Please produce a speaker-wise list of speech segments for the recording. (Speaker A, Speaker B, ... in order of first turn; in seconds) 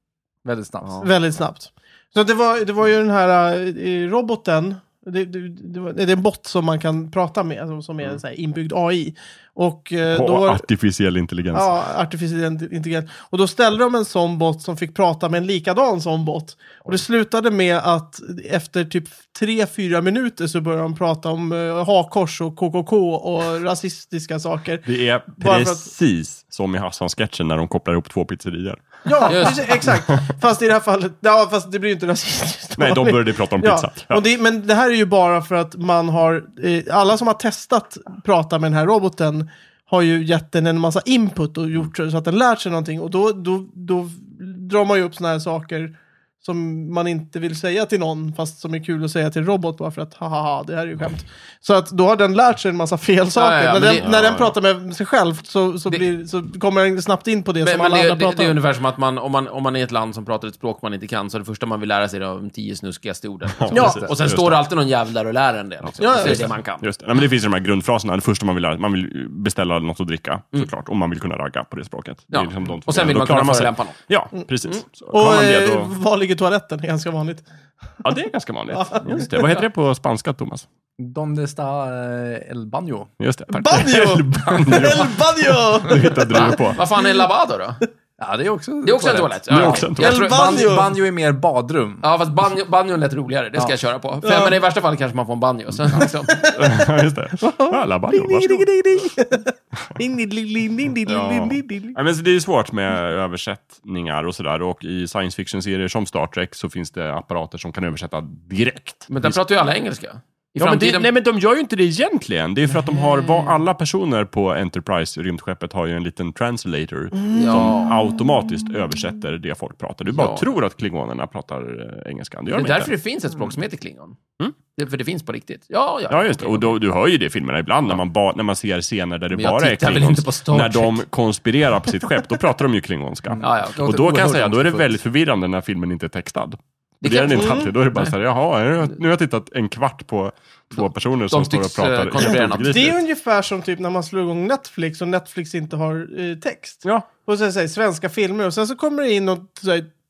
Speaker A: 0.4-1.1, 81.0-83.1, 88.2-92.0, 133.3-134.4
Speaker B: 1.0-10.6, 11.5-25.9, 29.0-58.6, 63.7-64.0, 66.0-66.5, 75.1-77.5, 78.7-79.3, 83.5-87.3, 90.0-90.9, 94.2-94.6, 96.3-96.8, 97.4-102.0, 117.2-117.9, 137.3-137.7, 142.2-149.9
Speaker C: 10.1-11.8, 24.8-30.2, 32.8-34.2, 54.0-54.5, 63.6-64.6, 65.8-75.9, 78.0-80.7, 83.2-86.8, 89.5-90.2, 96.5-98.7, 101.0-109.4, 110.6-122.9, 126.1-143.0
Speaker D: 29.2-29.8, 53.3-54.1, 57.6-66.8, 72.3-74.0, 86.3-87.8, 88.8-90.8, 92.0-96.5, 109.1-111.1, 117.3-118.0, 120.1-120.5, 122.5-124.2, 124.7-126.7, 129.3-131.0, 133.4-134.9, 137.0-138.1, 140.8-142.8